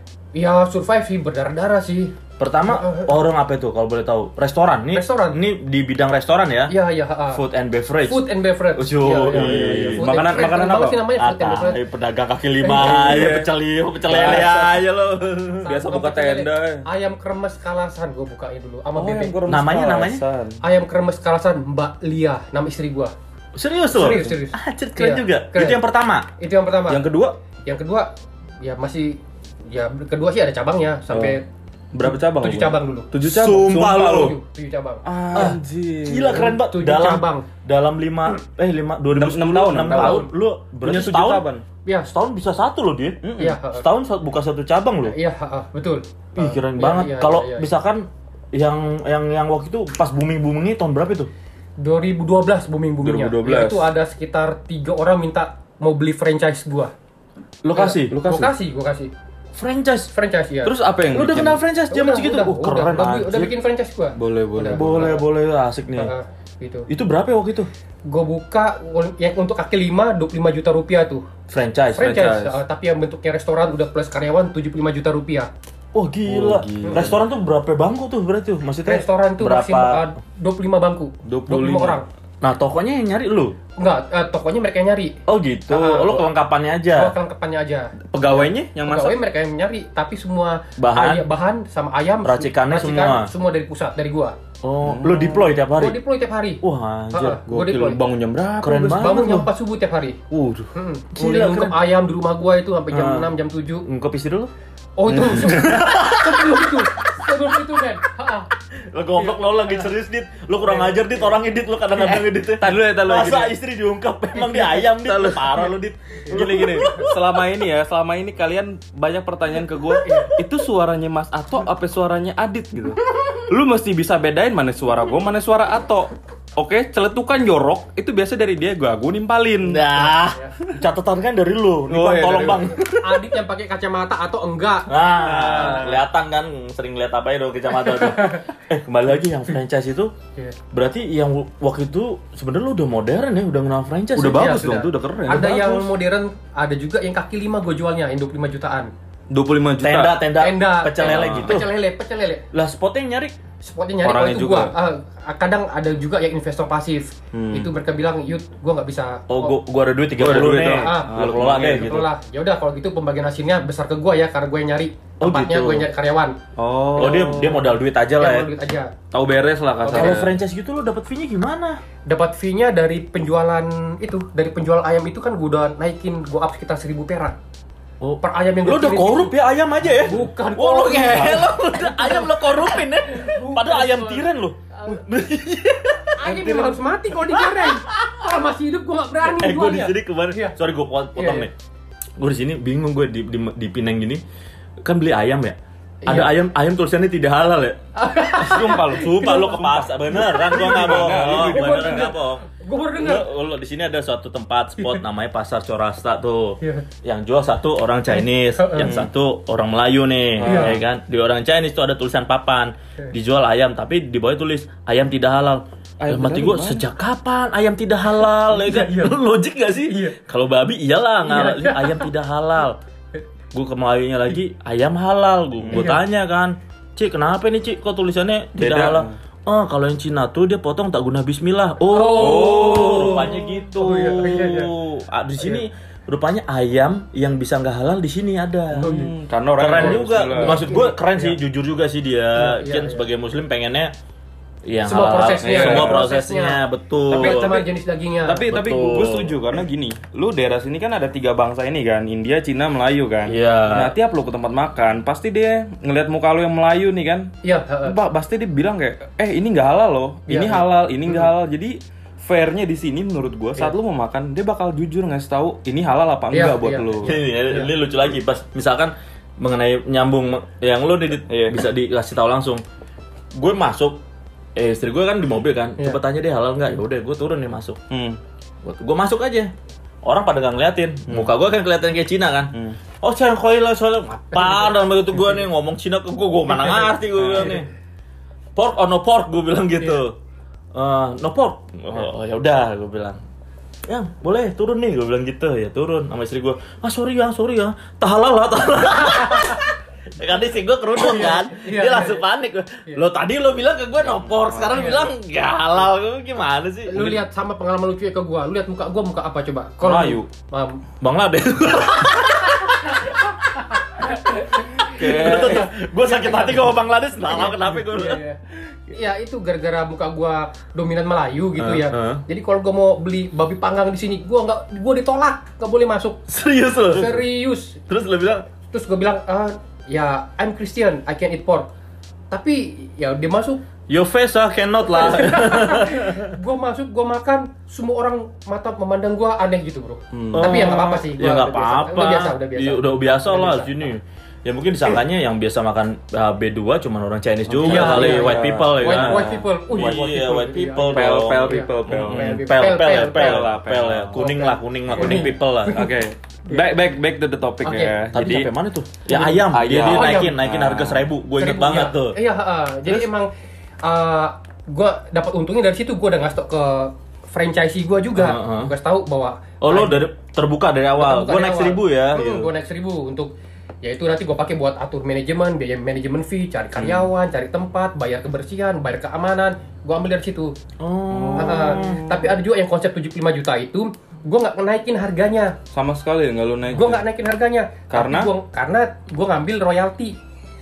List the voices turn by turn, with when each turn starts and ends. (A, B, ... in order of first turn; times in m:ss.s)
0:00.3-0:02.2 A
0:02.4-0:06.7 B
0:02.7-0:03.1 A
0:04.9-0:05.4 A
0:06.7-0:07.4 A
0:07.3-0:08.2 B
0:08.0-0:11.8 A
0:08.8-0:10.5 B
0:09.3-0:11.0 C
0:11.2-0:15.7 B
0:12.6-0:13.3 A
0:12.8-0:13.5 C
0:14.0-0:14.8 C
0:15.6-0:19.4 A
0:15.6-0:16.8 C
0:19.0-0:20.6 C
0:19.5-0:20.2 B
0:20.6-0:23.1 A
0:23.6-0:26.3 B
0:23.9-0:25.8 A
0:26.4-0:27.0 A
0:26.9-0:27.4 C
0:27.6-0:31.4 A
0:31.1-0:31.4 C
0:31.9-0:34.3 C
0:32.0-0:33.1 A
0:33.2-0:34.4 B
0:33.7-0:35.5 A
0:35.0-0:36.5 C
0:35.3-0:41.5 B
0:36.3-0:37.5 A
0:39.1-0:40.3 C
0:39.9-0:40.3 A
0:40.8-0:41.6 C
0:41.8-0:42.1 A
0:42.1-0:45.2 B
0:43.2-0:43.6 C
0:43.4-0:43.8 A
0:45.0-0:47.7 A
0:46.4-0:51.3 B
0:51.8-0:56.9 A
0:53.0-0:53.9 C
0:57.6-0:58.2 B
0:57.7-0:59.1 A
0:58.1-0:58.5 C
0:59.6-1:00.1 B
1:00.1-1:00.8 A
1:00.6-1:01.6 C
1:01.1-1:03.5 B
1:01.9-1:05.2 A
1:04.2-1:05.2 C
1:04.7-1:06.1 B
1:06.0-1:06.9 A
1:06.9-1:07.7 B
1:08.1-1:11.3 A
1:11.5-1:12.3 B
1:11.9-1:15.5 A
1:12.0-1:12.6 C
1:15.9-1:20.0 B
1:16.3-1:17.2 C
1:16.8-1:17.1 A
1:18.8-1:22.1 A
1:21.2-1:22.0 C
1:22.4-1:23.6 B
1:23.8-1:25.2 A
1:25.3-1:27.1 B
1:25.7-1:26.3 A
1:26.9-1:34.4 A
1:28.1-1:29.2 C
1:30.8-1:31.3 B
1:32.2-1:33.3 B
1:34.6-1:36.0 B
1:34.8-1:35.5 C
1:35.8-1:38.0 A
1:36.6-1:37.4 B
1:37.5-1:39.0 C
1:38.6-1:39.5 B
1:38.8-1:40.2 A
1:40.3-1:40.7 C
1:40.7-1:43.9 A
1:41.1-1:41.8 B
1:42.9-1:44.5 B
1:45.0-1:48.5 A
1:45.1-1:45.6 C
1:45.1-1:46.9 B
1:48.9-1:57.2 B
1:49.2-1:49.9 A
1:50.6-1:51.3 A
1:52.0-1:53.5 C
1:54.4-1:54.8 A
1:54.7-1:55.6 C
1:56.3-1:57.1 A
1:56.3-2:09.8 C
2:00.0-2:00.3 A
2:03.2-2:03.4 B
2:09.6-2:13.2 B
2:10.0-2:10.6 A
2:11.9-2:12.8 C
2:12.8-2:16.0 A
2:14.9-2:20.1 B
2:15.4-2:15.9 C
2:17.8-2:18.5 A
2:20.7-2:24.6 B
2:24.2-2:25.9 C
2:24.3-2:28.9 A
2:29.3-2:30.2 C
2:29.8-2:31.7 B
2:30.4-2:32.5 A
2:31.0-2:31.6 C
2:32.5-2:33.4 B
2:33.6-2:39.6 A
2:34.0-2:34.7 C
2:37.3-2:37.7 C
2:39.3-2:42.1 B
2:40.2-2:42.0 C
2:40.6-2:46.4 A
2:45.2-2:45.9 B
2:46.6-2:47.7 C
2:47.0-2:48.5 B
2:47.0-2:47.2 A
2:48.2-2:48.9 A
2:49.1-2:50.4 C
2:49.8-2:50.3 A
2:49.9-2:51.8 B
2:52.1-2:57.4 A
2:58.0-3:08.2 B
2:58.2-2:59.3 A
3:00.0-3:05.0 A
3:06.2-3:10.6 A
3:09.2-3:11.5 B
3:11.2-3:11.5 A
3:12.2-3:14.2 B
3:14.8-3:17.8 B
3:16.0-3:16.3 A
3:18.0-3:23.3 A
3:18.4-3:22.1 C
3:18.9-3:22.4 B
3:23.0-3:42.8 B
3:26.6-3:26.9 A
3:28.1-3:29.0 A
3:28.8-3:29.1 C
3:30.4-3:30.8 C
3:30.5-3:30.8 A
3:36.0-3:36.9 C
3:38.2-3:39.2 A
3:39.9-3:40.2 A
3:41.3-3:42.1 A
3:43.5-3:59.0 B
3:45.6-3:45.9 C
3:45.7-3:46.0 A
3:48.6-3:49.2 C
3:51.9-3:54.7 A
3:52.2-3:53.3 C
3:58.7-4:00.7 C
3:58.8-3:59.1 A
3:59.6-4:03.9 B
3:59.7-4:01.4 A
4:02.4-4:03.1 A
4:04.7-4:07.6 B
4:04.9-4:08.5 A
4:05.4-4:06.0 C
4:07.1-4:07.7 C
4:08.2-4:17.3 C
4:08.5-4:09.4 B
4:13.3-4:14.0 B
4:17.4-4:18.0 A
4:17.8-4:27.2 C
4:20.3-4:21.3 A
4:26.3-4:27.7 A
4:27.0-4:32.6 B
4:31.3-4:31.6 C
4:33.4-4:34.0 B
4:34.6-4:37.8 B
4:37.9-4:38.2 C
4:38.6-4:39.5 B
4:40.0-4:47.7 B
4:46.6-4:46.9 A
4:47.2-4:47.6 C
4:48.6-4:50.2 B
4:50.7-4:53.2 B
4:53.9-5:07.2 B
4:59.0-4:59.6 A
5:01.0-5:02.3 A
5:04.3-5:04.7 C
5:04.7-5:05.1 A
5:06.9-5:10.8 A
5:09.8-5:10.2 B
5:11.0-5:18.2 B
5:12.9-5:13.1 A
5:13.7-5:16.7 A
5:14.9-5:15.7 C
5:17.3-5:18.4 A
5:18.9-5:26.2 A
5:21.6-5:22.2 B
5:26.3-5:27.2 B
5:26.9-5:27.8 A
5:27.9-5:28.5 B
5:28.7-5:31.7 A
5:32.3-5:33.6 A
5:33.9-5:36.4 B
5:34.9-5:43.9 A
5:40.1-5:40.5 C
5:40.3-5:55.8 B
5:47.5-5:50.0 C
5:47.6-5:53.5 A
5:50.8-5:52.3 C
5:53.1-5:54.3 C
5:54.1-5:56.0 A
5:54.9-5:58.5 C
5:57.6-5:58.0 A
5:58.1-6:02.2 B
5:59.1-6:00.4 A
5:59.5-6:01.1 C
6:01.4-6:03.3 A
6:03.8-6:10.1 A
6:08.2-6:08.7 B
6:09.6-6:12.5 B
6:11.0-6:20.5 A
6:20.8-6:22.1 B
6:21.1-6:22.3 C
6:21.4-6:25.6 A
6:25.7-6:27.0 C
6:26.7-6:30.2 A
6:27.9-6:28.3 C